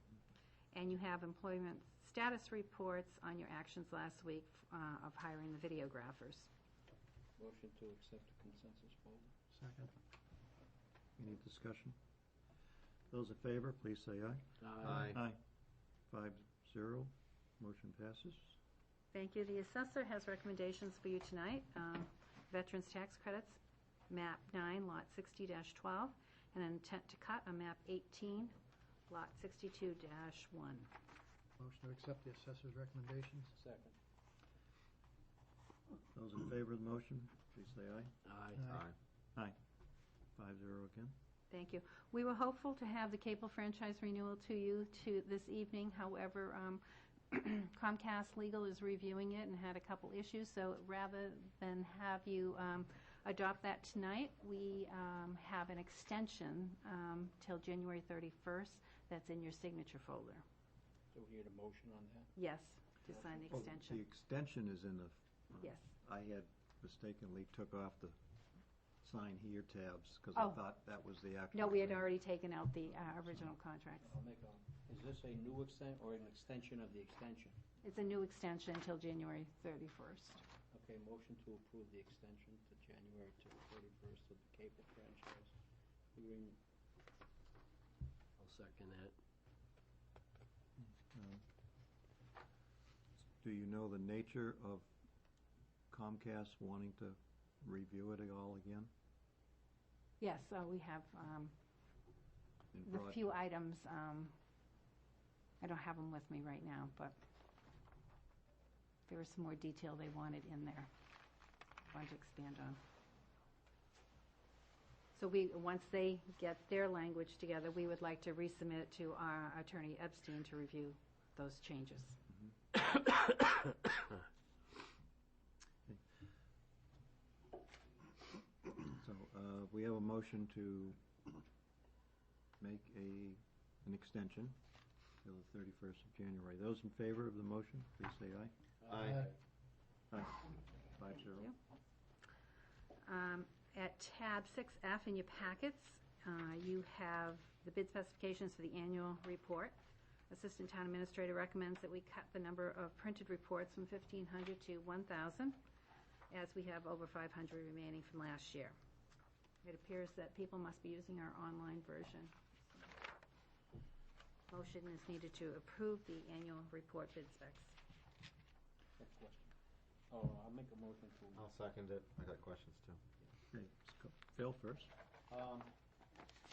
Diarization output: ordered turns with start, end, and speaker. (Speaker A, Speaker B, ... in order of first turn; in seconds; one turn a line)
Speaker A: 0.7-6.5
Speaker B: 7.4-9.3
Speaker C: 9.5-9.9
Speaker D: 11.2-11.9
Speaker D: 13.1-15.4
Speaker E: 14.6-15.1
Speaker F: 14.8-15.2
Speaker D: 16.1-18.5
Speaker A: 19.1-28.5
Speaker A: 29.1-30.9
Speaker C: 31.6-33.5
Speaker B: 33.5-34.0
Speaker D: 36.1-38.1
Speaker E: 38.2-38.6
Speaker C: 38.5-38.9
Speaker D: 40.4-41.1
Speaker A: 41.5-60.4
Speaker B: 61.1-62.3
Speaker A: 62.4-64.0
Speaker B: 63.1-63.4
Speaker D: 63.5-68.2
Speaker A: 65.6-65.9
Speaker D: 69.0-72.1
Speaker A: 70.3-70.6
Speaker A: 71.5-74.1
Speaker B: 74.0-77.6
Speaker A: 77.8-80.4
Speaker B: 80.7-85.5
Speaker B: 86.1-86.6
Speaker E: 88.4-89.1
Speaker D: 90.8-91.4
Speaker D: 93.3-94.9
Speaker D: 95.9-98.9
Speaker A: 100.2-101.5
Speaker D: 102.7-103.3
Speaker A: 102.8-104.3
Speaker A: 105.6-107.2
Speaker A: 109.1-110.9
Speaker A: 111.9-112.8
Speaker A: 115.1-122.2
Speaker D: 128.8-131.0
Speaker D: 132.6-134.6
Speaker D: 135.2-138.5
Speaker E: 138.8-139.3
Speaker F: 138.9-139.2
Speaker D: 140.1-141.5
Speaker A: 143.0-149.7
Speaker A: 150.3-155.6
Speaker A: 156.3-158.7
Speaker A: 159.6-162.3
Speaker A: 164.5-167.7
Speaker B: 169.0-169.5
Speaker B: 170.1-171.4
Speaker F: 171.3-173.0
Speaker D: 173.5-174.9
Speaker B: 175.3-175.7